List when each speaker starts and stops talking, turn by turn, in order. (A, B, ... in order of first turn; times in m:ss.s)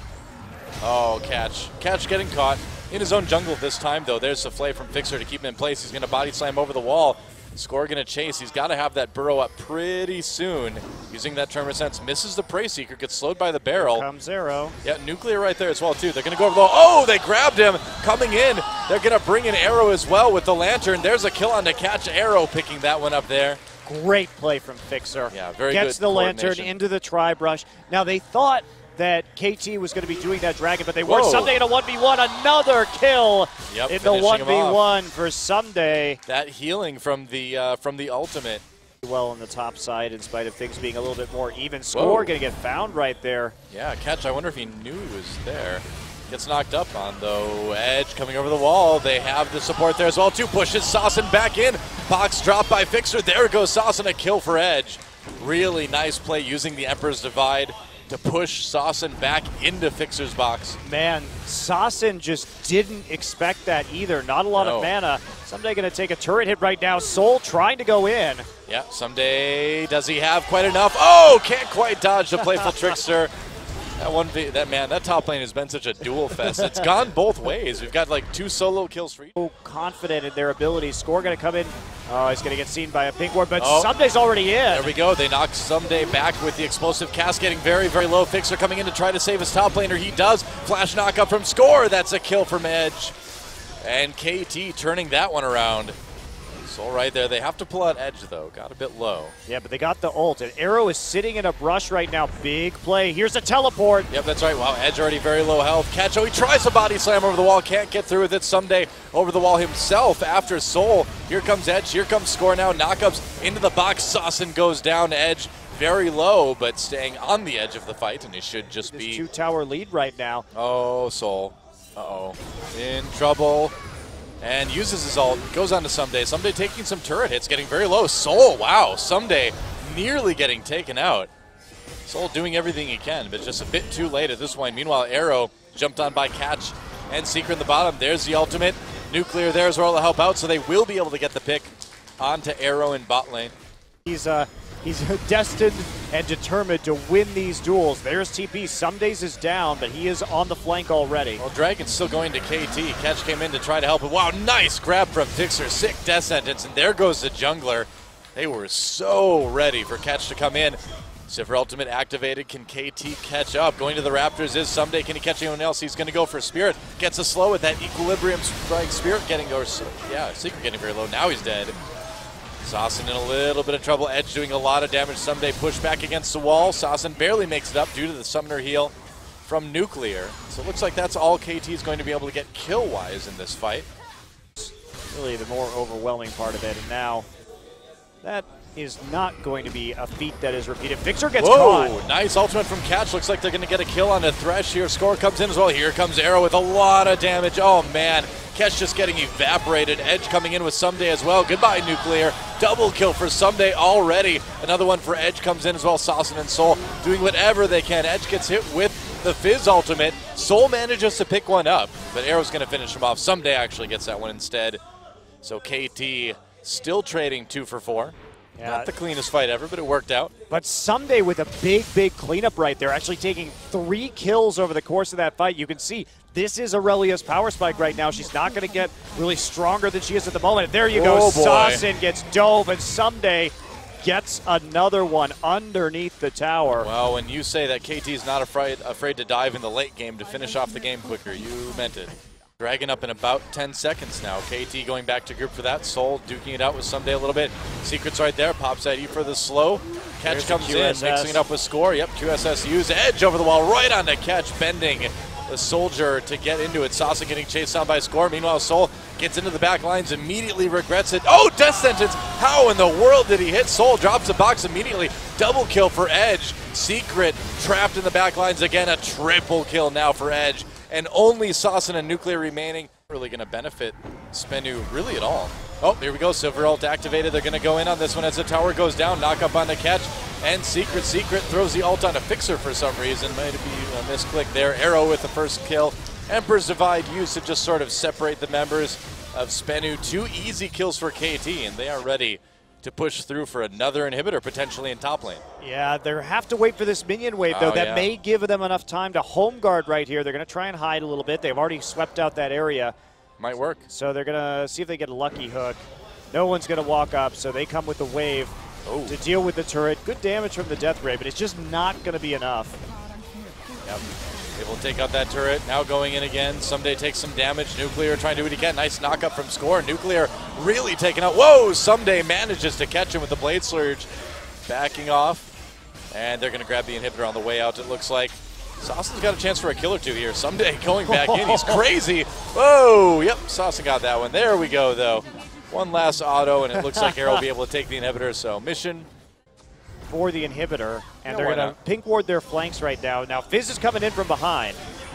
0:00.8-0:14.0 A
0:13.7-0:14.8 B
0:14.8-0:23.6 A
0:23.8-0:36.2 B
0:25.3-0:26.7 A
0:31.0-0:31.6 A
0:33.7-0:34.8 A
0:36.3-0:38.6 A
0:39.0-0:43.6 B
0:41.9-0:42.3 A
0:43.7-1:00.8 A
1:00.8-1:08.5 B
1:04.5-1:04.9 A
1:08.7-1:13.3 A
1:14.0-1:19.3 A
1:16.6-1:16.8 B
1:19.4-1:24.9 B
1:23.6-1:23.9 A
1:24.7-1:33.2 A
1:33.8-1:36.0 A
1:36.6-1:39.4 A
1:39.5-1:44.1 B
1:44.1-1:59.2 A
1:58.9-2:00.5 B
2:00.5-2:03.7 A
2:04.4-2:11.3 A
2:12.1-2:23.6 A
2:24.1-2:31.4 B
2:31.4-2:51.8 A
2:52.6-2:58.9 A
2:59.4-3:03.9 A
3:04.6-3:07.3 B
3:08.2-3:12.0 B
3:11.4-3:34.8 A
3:35.4-3:40.3 A
3:38.6-3:38.9 B
3:40.5-3:56.9 B
3:50.9-3:51.8 A
3:56.8-4:55.4 A
4:10.2-4:11.4 B
4:55.6-5:03.0 B
4:57.5-4:58.1 A
5:03.4-5:03.9 A
5:03.9-5:08.6 B
5:08.9-5:09.2 A
5:09.1-5:12.8 B
5:14.6-5:24.1 A
5:24.7-5:25.6 A
5:26.1-5:39.1 A
5:31.1-5:31.8 B
5:36.7-5:37.4 B
5:40.1-5:44.8 B
5:41.3-5:41.8 A